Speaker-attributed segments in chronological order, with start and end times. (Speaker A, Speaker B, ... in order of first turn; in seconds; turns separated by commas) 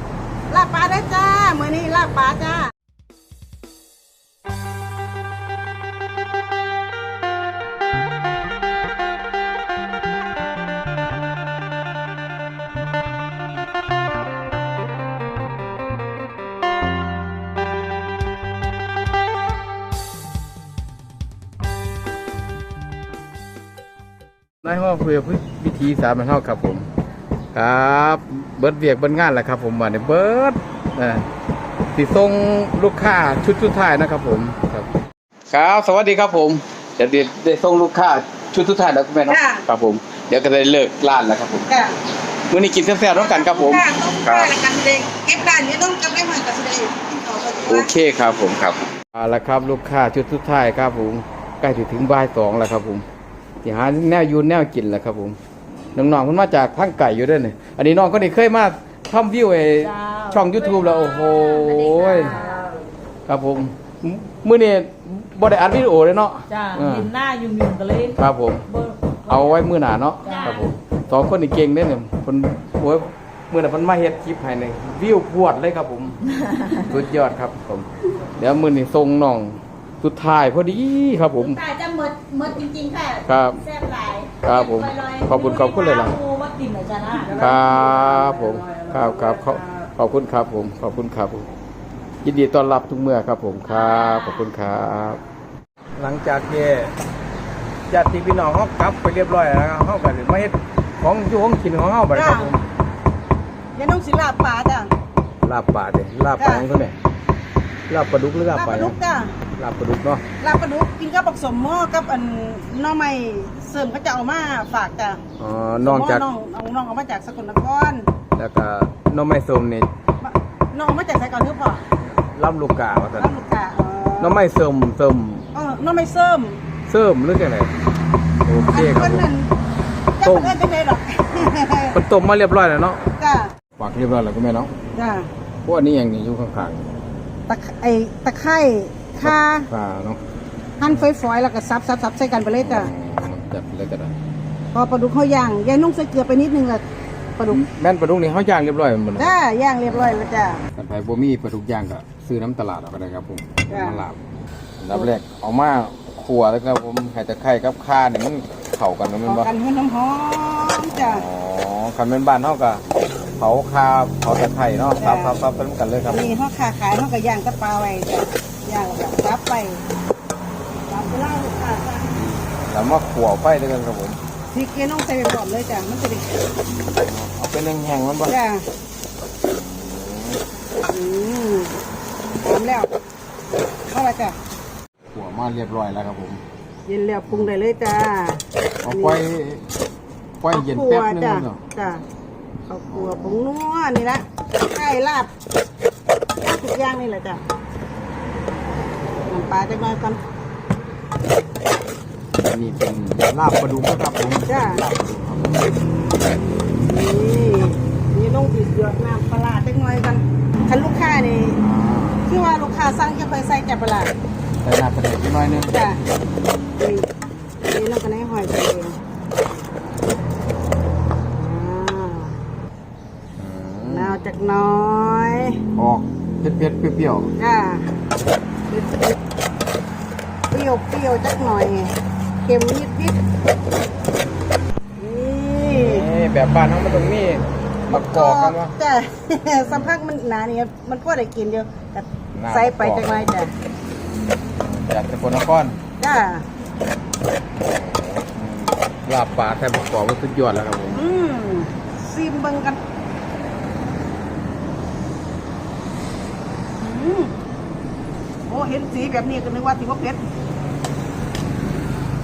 Speaker A: 0.5-2.7, Speaker B: 24.6-26.9, Speaker B: 27.5-31.3, Speaker B: 31.9-34.9, Speaker B: 35.5-41.7, Speaker A: 39.3-39.6, Speaker A: 41.7-42.0, Speaker B: 42.5-44.5, Speaker A: 43.1-47.9, Speaker B: 47.7-53.0, Speaker B: 53.6-55.4, Speaker B: 55.9-62.4, Speaker C: 59.8-62.8, Speaker B: 63.3-67.1, Speaker C: 66.5-69.7, Speaker B: 68.2-68.7, Speaker B: 69.3-76.2, Speaker C: 70.2-70.7, Speaker C: 76.2-77.0, Speaker B: 76.8-81.6, Speaker C: 81.4-89.9, Speaker B: 83.2-83.6, Speaker B: 84.4-86.2, Speaker A: 87.2-88.1, Speaker B: 87.3-91.5, Speaker B: 92.2-95.2, Speaker C: 93.6-94.5, Speaker B: 96.0-96.9, Speaker B: 97.9-102.6, Speaker A: 102.1-102.5, Speaker A: 103.8-104.9, Speaker B: 105.4-107.0, Speaker A: 106.4-106.6, Speaker B: 107.9-109.0, Speaker A: 108.5-109.3, Speaker B: 109.5-110.2, Speaker A: 110.4-115.2, Speaker B: 115.4-116.2, Speaker A: 115.8-118.1, Speaker B: 118.3-119.9, Speaker A: 120.2-121.8, Speaker B: 122.2-123.3, Speaker A: 123.2-124.4, Speaker B: 124.2-125.5, Speaker A: 125.5-126.6, Speaker B: 126.9-127.7, Speaker B: 128.4-129.3, Speaker A: 128.7-129.5, Speaker A: 130.2-132.0, Speaker B: 130.2-130.6, Speaker B: 131.4-133.0, Speaker A: 133.2-133.5, Speaker B: 133.8-134.7, Speaker A: 134.9-135.3, Speaker B: 135.6-136.9, Speaker A: 137.5-139.7, Speaker B: 139.2-140.2, Speaker A: 140.8-142.9, Speaker B: 142.6-144.1, Speaker A: 144.7-146.8, Speaker B: 147.5-149.4, Speaker A: 149.2-150.6, Speaker B: 150.8-154.2, Speaker A: 153.7-154.0, Speaker B: 154.8-159.5, Speaker A: 159.2-161.2, Speaker B: 160.9-162.8, Speaker B: 163.3-166.3, Speaker A: 165.0-165.4, Speaker A: 166.1-169.8, Speaker A: 170.9-172.2, Speaker B: 172.2-174.2, Speaker A: 174.5-176.4, Speaker B: 176.8-178.3, Speaker A: 178.3-178.6, Speaker B: 179.4-180.4, Speaker A: 180.9-181.7, Speaker A: 182.4-182.9, Speaker A: 183.9-184.3, Speaker B: 185.1-186.4, Speaker A: 186.9-189.2, Speaker B: 188.8-189.6, Speaker B: 190.4-191.6, Speaker A: 190.5-192.0, Speaker A: 192.7-195.3, Speaker B: 192.9-193.4, Speaker A: 196.4-197.4, Speaker A: 199.3-200.2, Speaker B: 202.3-205.6, Speaker A: 204.4-204.8, Speaker A: 206.8-211.6, Speaker B: 211.6-212.2, Speaker A: 212.2-214.1, Speaker B: 214.6-215.7, Speaker A: 215.7-216.0, Speaker A: 216.8-217.1, Speaker A: 217.6-219.0, Speaker A: 221.3-222.4, Speaker B: 223.4-224.2, Speaker A: 223.9-225.6, Speaker B: 225.7-227.3, Speaker A: 227.4-227.9, Speaker A: 228.7-229.2, Speaker A: 230.5-231.9, Speaker A: 232.4-233.2, Speaker A: 235.0-236.1, Speaker B: 235.7-238.7, Speaker A: 237.9-243.5, Speaker B: 239.6-240.0, Speaker B: 242.3-243.3, Speaker B: 244.5-245.8, Speaker A: 246.0-246.4, Speaker B: 247.5-251.0, Speaker A: 250.9-252.8, Speaker A: 256.8-257.3, Speaker A: 258.4-260.2